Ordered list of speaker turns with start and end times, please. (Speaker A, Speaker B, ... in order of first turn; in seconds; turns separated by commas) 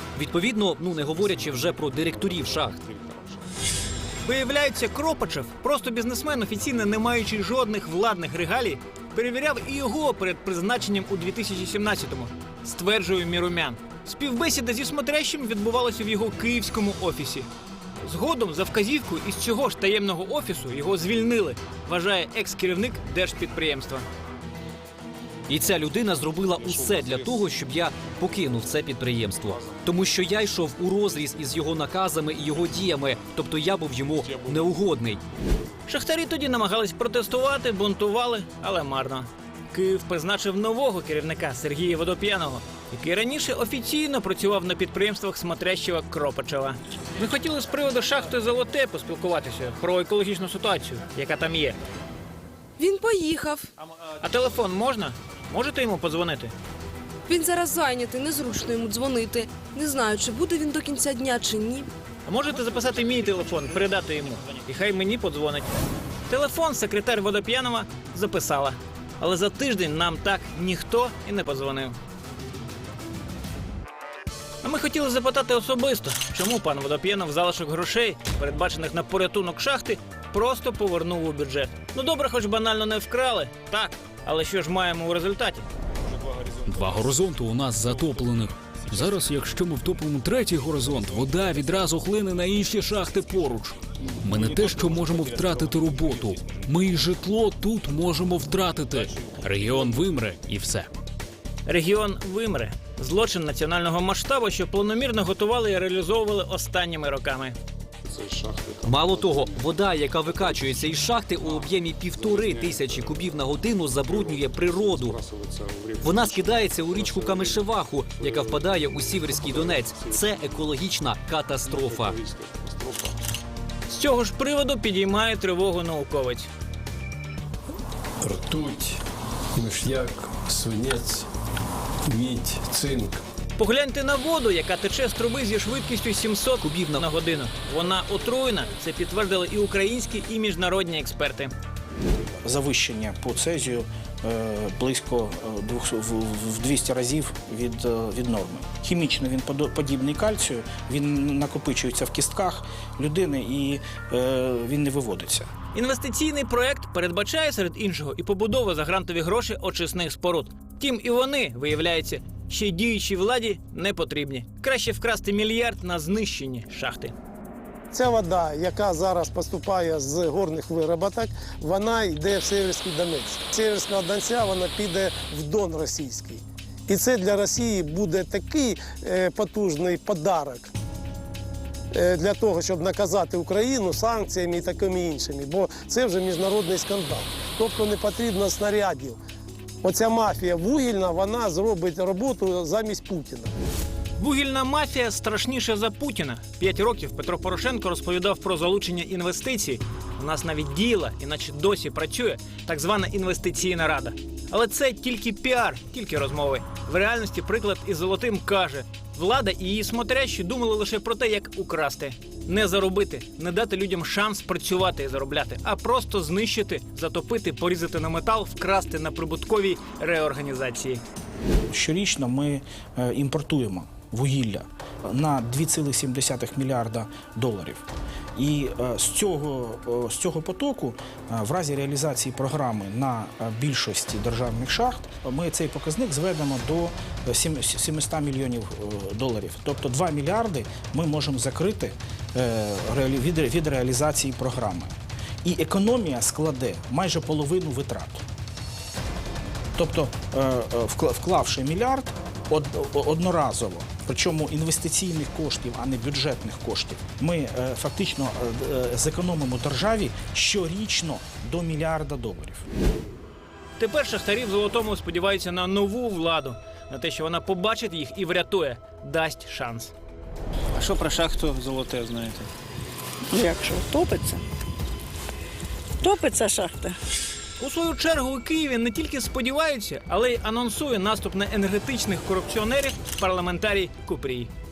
Speaker A: 0.2-2.8, Speaker B: 0.8-3.4, Speaker C: 4.2-17.5, Speaker C: 18.0-24.1, Speaker A: 25.5-35.2, Speaker B: 26.4-28.9, Speaker B: 29.4-30.6, Speaker B: 32.6-33.4, Speaker B: 34.2-35.0, Speaker C: 35.9-51.8, Speaker D: 52.8-53.7, Speaker C: 54.2-56.5, Speaker D: 57.2-61.9, Speaker C: 62.2-65.7, Speaker C: 66.3-72.0, Speaker C: 74.6-85.7, Speaker B: 86.1-98.2, Speaker E: 86.7-100.9, Speaker B: 98.8-100.6, Speaker C: 101.7-107.6, Speaker B: 108.0-120.8, Speaker A: 108.8-115.2, Speaker A: 116.0-122.2, Speaker B: 121.6-123.2, Speaker C: 123.9-126.5, Speaker F: 128.2-129.0, Speaker F: 129.6-131.3, Speaker F: 132.1-133.2, Speaker C: 133.6-141.5, Speaker A: 136.6-137.0, Speaker G: 142.4-155.5, Speaker C: 155.7-167.1, Speaker H: 167.9-180.7, Speaker H: 181.9-189.2, Speaker H: 189.8-193.5, Speaker C: 194.2-221.0, Speaker G: 221.7-227.8, Speaker G: 228.3-248.2, Speaker G: 249.8-262.7, Speaker C: 263.8-269.9, Speaker I: 273.4-274.4, Speaker I: 276.0-276.9, Speaker C: 277.6-284.5